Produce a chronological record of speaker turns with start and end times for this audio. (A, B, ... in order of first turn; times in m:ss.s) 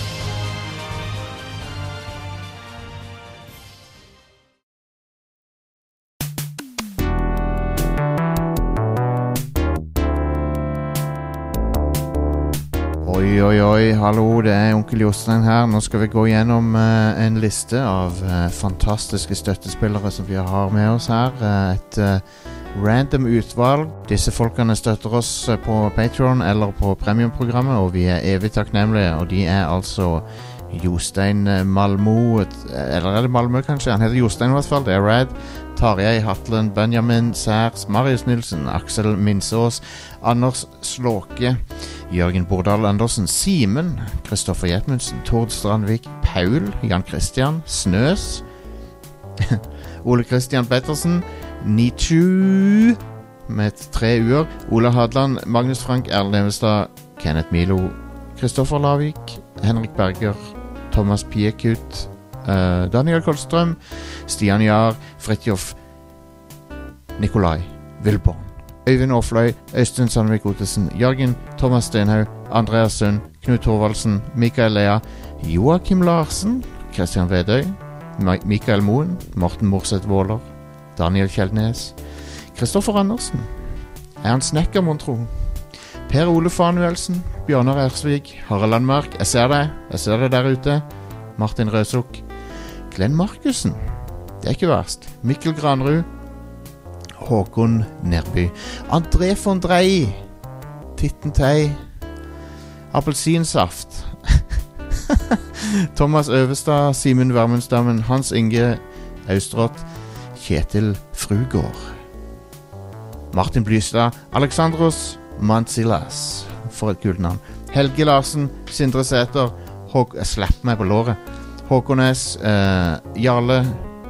0:13.0-0:48.4 A
0:49.4-1:05.8 A
1:07.2-1:22.0 A
1:22.5-1:23.5 A
1:24.2-1:25.3 A
1:26.1-1:30.8 A
1:31.4-1:32.2 A
1:32.9-1:33.8 A
1:34.4-1:36.1 A
1:37.2-1:40.2 A
1:41.0-1:41.8 A
1:42.9-1:52.0 A
1:53.3-2:03.9 A